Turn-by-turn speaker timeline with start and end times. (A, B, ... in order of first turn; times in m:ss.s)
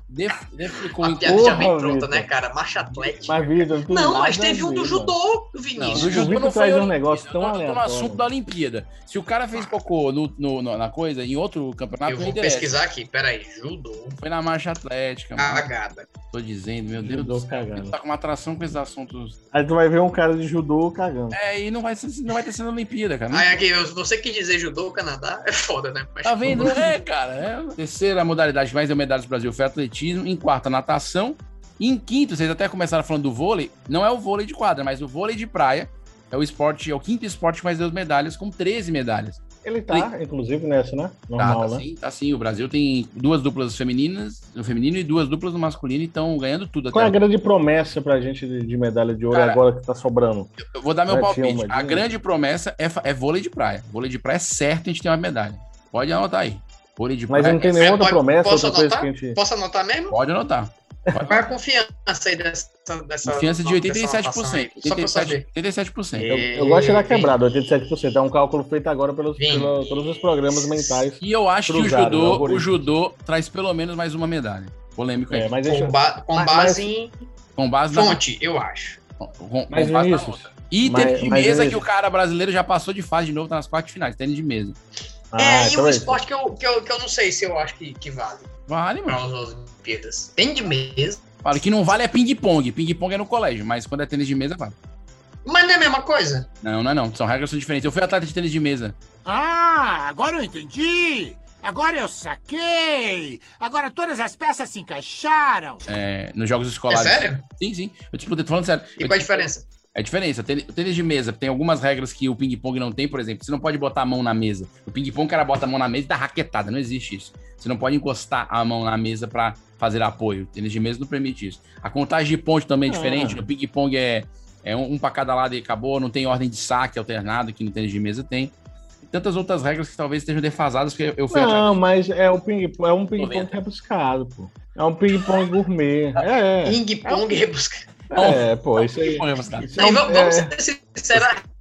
0:00.1-0:01.6 A
0:01.0-0:06.4 B
0:01.2-0:02.3 C
0:03.2-0:05.1 C
0:05.8-0:12.8 A
0:05.9-0:08.2 C
0:12.1-0:14.2 B
0:14.2-0:15.7 A
0:15.4-0:16.1 B
0:16.3-0:19.4 A
0:17.0-0:17.9 C
0:19.5-0:21.4 C
0:21.3-0:23.6 A
0:23.3-0:26.9 B
0:26.2-0:40.1 A
0:39.6-0:41.8 C
0:41.4-0:47.2 A
0:46.9-0:50.5 C
0:49.3-0:49.6 A
0:50.6-0:57.8 A
0:51.1-0:52.1 C
0:57.3-0:59.4 C
0:57.6-1:00.2 B
1:00.1-1:01.4 A
1:01.3-1:05.4 B
1:03.2-1:06.3 A
1:06.2-1:07.4 B
1:06.2-1:12.7 C
1:09.4-1:09.9 B
1:10.5-1:10.9 B
1:11.2-1:15.5 A
1:15.3-1:16.9 C
1:15.6-1:17.1 B
1:17.6-1:18.2 A
1:17.9-1:19.0 B
1:19.2-1:24.8 A
1:19.7-1:21.8 C
1:25.3-1:26.2 C
1:25.4-1:28.5 B
1:28.7-1:29.2 A
1:29.1-1:31.2 B
1:31.4-1:34.7 A
1:35.4-1:36.5 B
1:36.6-1:39.0 A
1:39.2-1:45.8 D
1:45.8-2:08.5 A
1:46.9-1:47.4 B
1:49.0-1:49.6 B
2:02.9-2:03.5 C
2:09.1-2:11.7 A
2:11.3-2:17.4 C
2:13.2-2:13.6 A
2:16.6-2:17.9 B
2:18.1-2:20.5 C
2:18.1-2:18.4 A
2:19.0-2:19.7 A
2:19.8-2:21.4 B